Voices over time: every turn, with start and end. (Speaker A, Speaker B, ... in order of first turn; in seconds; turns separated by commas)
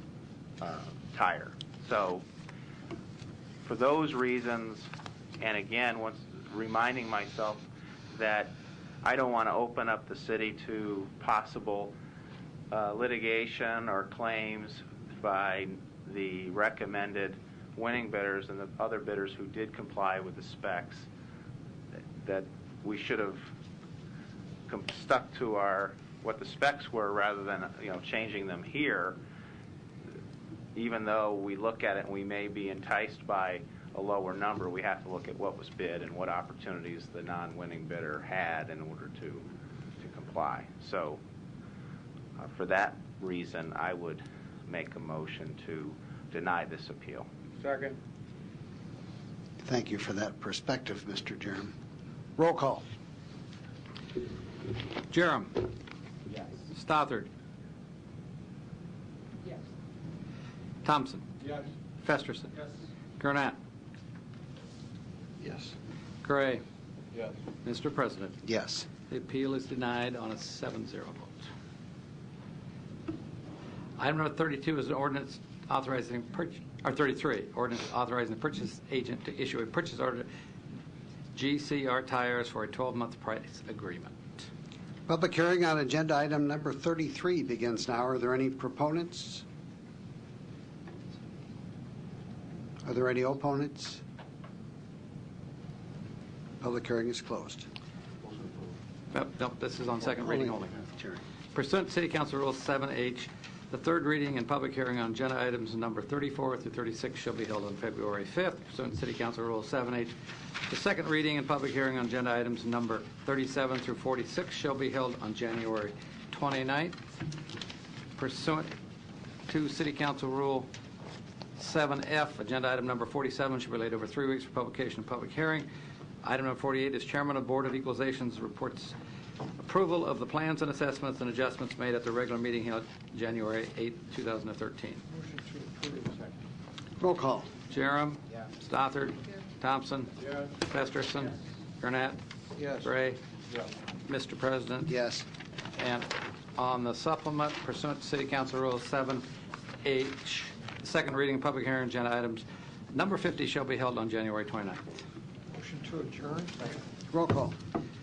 Speaker A: 0.6-2.2, Speaker A: 3.6-11.9, Speaker A: 12.7-21.1, Speaker A: 22.1-23.5, Speaker A: 24.7-29.2, Speaker A: 30.8-39.5, Speaker A: 40.0-41.2, Speaker A: 42.4-47.3, Speaker B: 47.6-48.0, Speaker C: 49.6-51.7, Speaker C: 52.4-52.8, Speaker B: 55.1-55.7, Speaker B: 56.7-57.3, Speaker B: 60.8-61.4, Speaker B: 62.0-62.6, Speaker B: 63.2-63.6, Speaker C: 65.4-65.7, Speaker B: 66.2-66.6, Speaker B: 67.6-68.4, Speaker C: 68.4-68.9, Speaker B: 69.1-71.4, Speaker B: 74.0-80.3, Speaker B: 81.3-84.5, Speaker C: 85.1-89.4, Speaker C: 92.8-94.0, Speaker C: 96.6-97.7, Speaker B: 99.1-100.7, Speaker C: 100.0-101.2, Speaker B: 101.5-117.0, Speaker B: 118.2-118.7, Speaker B: 119.5-120.7, Speaker B: 121.5-125.7, Speaker B: 126.2-128.9, Speaker B: 129.6-135.0, Speaker D: 135.1-136.3, Speaker C: 137.0-137.5, Speaker B: 137.7-142.2, Speaker C: 142.6-142.9, Speaker B: 142.7-143.2, Speaker B: 144.1-144.9, Speaker C: 144.9-145.2, Speaker B: 145.8-149.2, Speaker B: 149.8-154.8, Speaker D: 155.5-156.7, Speaker C: 157.1-157.6